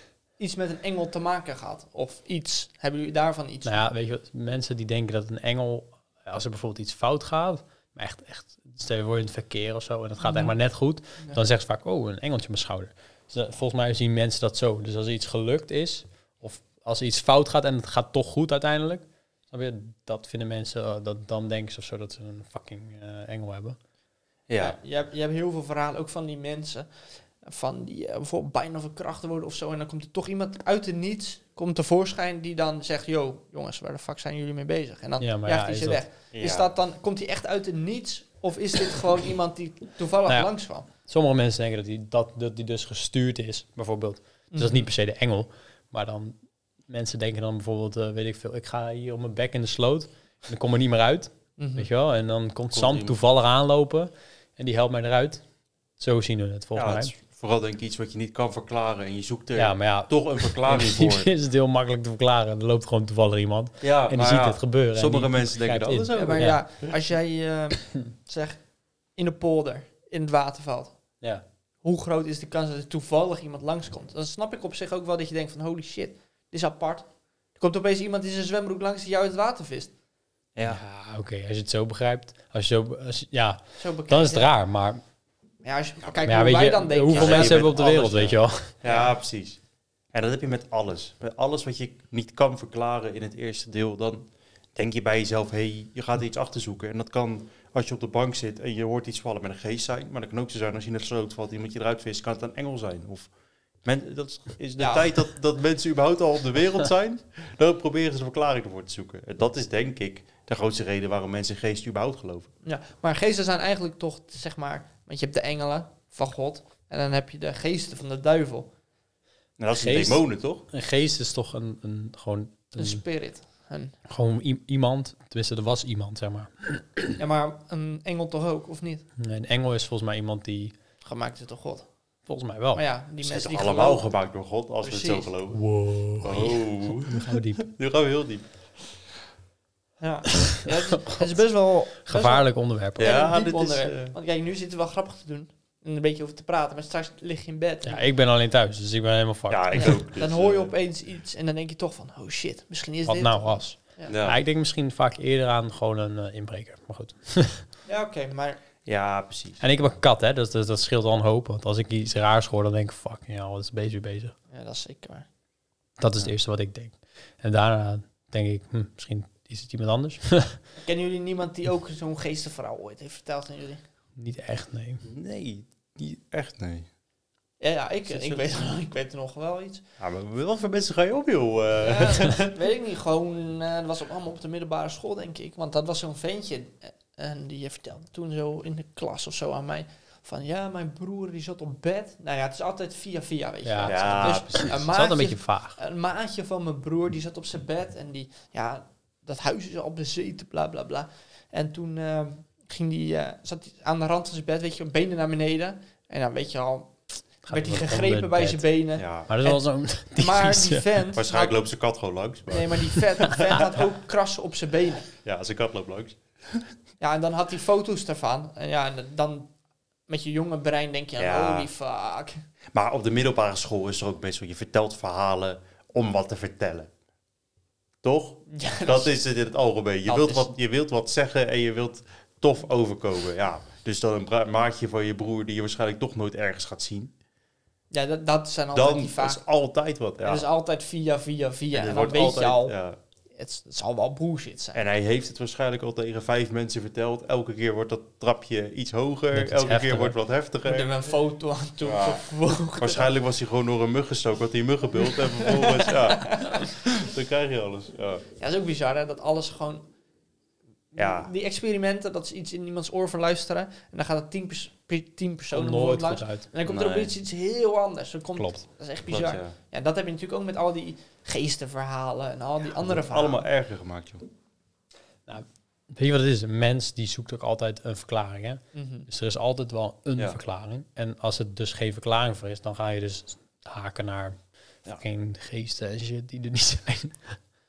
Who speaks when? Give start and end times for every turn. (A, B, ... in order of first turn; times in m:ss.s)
0:00.4-0:03.8 A
0:03.6-0:23.8 B
0:10.2-0:10.5 A
0:24.5-0:24.8 C
0:24.6-0:26.9 A
0:27.4-0:40.9 A
0:35.2-0:36.0 B
0:36.3-0:36.7 C
0:40.3-0:46.4 B
0:44.5-0:44.9 A
0:46.9-0:55.4 B
0:51.6-0:51.9 A
0:52.7-0:53.2 C
0:56.0-0:57.1 B
0:56.8-1:01.3 C
0:59.6-1:06.6 B
1:03.8-1:06.6 C
1:06.1-1:08.6 A
1:09.2-1:11.0 A
1:11.8-1:17.0 A
1:17.6-1:19.9 A
1:20.6-1:20.8 C
1:20.6-1:25.0 B
1:23.8-1:24.5 A
1:25.6-1:28.2 A
1:26.2-1:28.7 B
1:27.1-1:29.6 C
1:28.8-1:29.1 A
1:30.1-1:43.3 C
1:43.8-1:52.5 C
1:44.8-1:45.1 A
1:52.6-1:58.7 A
1:59.6-2:00.6 C
1:59.7-2:03.0 B
2:02.8-2:04.0 A
2:04.1-2:07.2 B
2:07.2-2:09.0 A
2:09.2-2:10.7 B
2:11.0-2:11.8 A
2:12.3-2:12.8 B
2:12.7-2:14.1 A
2:13.2-2:15.6 C
2:14.8-2:15.3 A
2:15.5-2:17.6 B
2:16.2-2:18.4 C
2:20.0-2:22.4 A
2:21.0-2:21.3 B
2:22.0-2:23.1 B
2:23.0-2:24.1 C
2:23.0-2:28.0 A
2:27.8-2:30.0 B
2:29.5-2:30.7 C
2:29.7-2:34.1 A
2:33.0-2:37.6 B
2:34.1-2:34.4 C
2:37.9-2:38.6 A
2:38.8-2:39.6 C
2:39.6-2:44.3 B
2:44.5-2:45.2 A
2:46.0-2:50.6 B
2:50.8-2:53.8 A
2:54.2-2:55.0 B
2:55.0-2:56.9 C
2:57.6-2:59.8 A
2:58.1-2:58.4 C
3:00.0-3:02.5 C
3:01.8-3:26.9 A
3:13.6-3:15.8 B
3:13.8-3:14.8 C
3:27.4-3:29.6 A
3:27.5-3:28.7 B
3:29.0-3:29.3 C
3:29.3-3:31.0 B
3:30.1-3:31.5 A
3:31.1-3:33.6 C
3:32.5-3:35.1 A
3:35.2-3:36.6 C
3:37.0-3:39.5 A
3:40.1-3:42.4 A
3:41.2-3:41.7 C
3:42.7-3:46.9 C
3:48.0-3:57.1 C
3:48.5-3:49.2 A
3:50.0-3:50.5 A
3:57.9-3:59.4 A
3:58.7-4:00.5 C
4:00.2-4:02.7 A
4:01.7-4:03.0 C
4:03.4-4:04.8 A
4:04.7-4:11.0 C
4:09.3-4:10.1 B
4:10.6-4:13.1 A
4:11.8-4:12.2 C
4:12.8-4:18.2 C
4:15.0-4:16.7 A
4:18.4-4:19.8 A
4:20.9-4:33.4 A
4:21.0-4:21.3 C
4:25.5-4:26.4 B
4:26.6-4:27.1 C
4:28.4-4:28.6 B
4:29.1-4:29.5 C
4:32.8-4:34.2 C
4:35.3-4:47.4 B
4:38.7-4:39.1 A